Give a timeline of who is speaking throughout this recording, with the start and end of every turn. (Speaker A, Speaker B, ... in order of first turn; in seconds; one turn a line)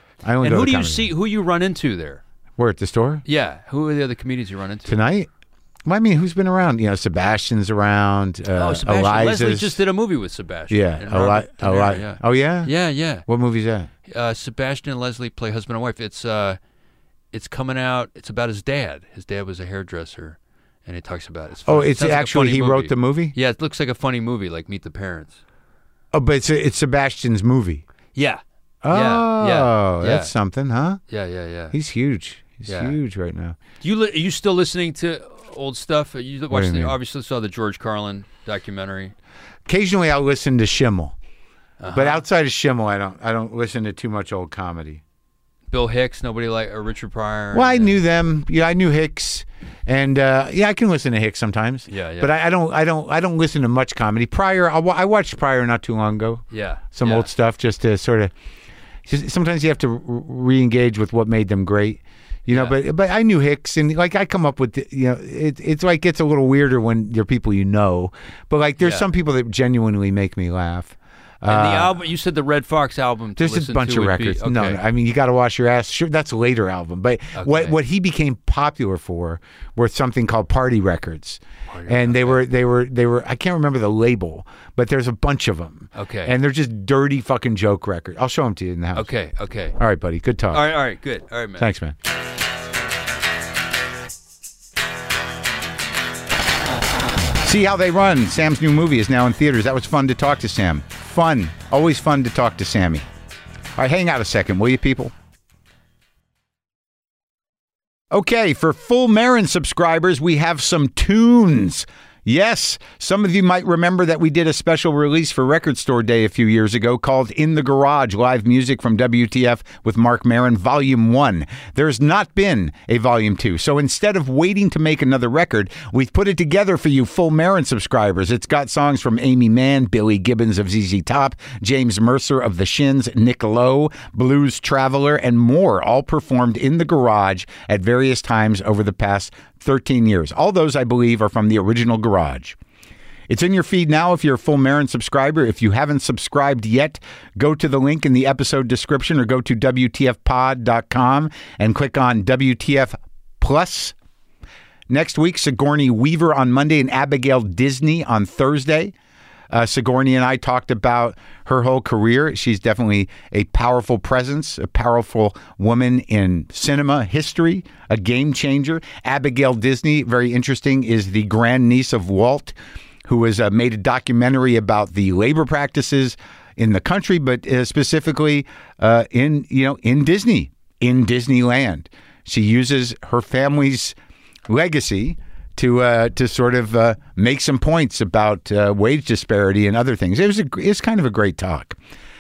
Speaker A: 0.2-1.1
Speaker B: 0.4-2.2
Speaker A: 2.6-3.2
Speaker B: 3.2-5.0
Speaker A: 4.9-5.3
Speaker A: 5.8-9.8
Speaker B: 8.5-13.2
Speaker A: 10.7-12.7
Speaker A: 13.3-13.9
Speaker B: 14.1-16.6
Speaker B: 17.3-25.4
Speaker A: 21.6-23.3
Speaker A: 26.1-27.8
Speaker B: 28.1-30.3
Speaker A: 28.8-31.0
Speaker B: 31.1-31.7
Speaker A: 31.7-33.6
Speaker B: 32.7-33.0
Speaker B: 33.8-39.1
Speaker A: 36.5-37.0
Speaker A: 39.7-41.1
Speaker B: 41.8-42.2
Speaker A: 41.9-45.0
Speaker B: 45.7-48.0
Speaker A: 47.5-58.3
Speaker B: 51.9-52.3
Speaker B: 56.5-57.3
Speaker A: 59.0-72.0
Speaker B: 62.5-62.8
Speaker B: 68.8-69.1
Speaker B: 71.5-74.8
Speaker A: 73.4-89.1
Speaker B: 77.3-77.7
Speaker B: 81.7-82.4
Speaker B: 85.9-86.3
Speaker B: 88.9-89.8
Speaker A: 89.8-90.7
Speaker B: 90.5-91.7
Speaker A: 91.6-91.9
Speaker A: 97.4-103.0
Speaker A: 103.8-105.1
Speaker A: 108.1-142.6
Speaker A: 143.3-153.9
Speaker A: 154.9-158.9
Speaker A: 159.5-183.9
Speaker A: 184.5-191.8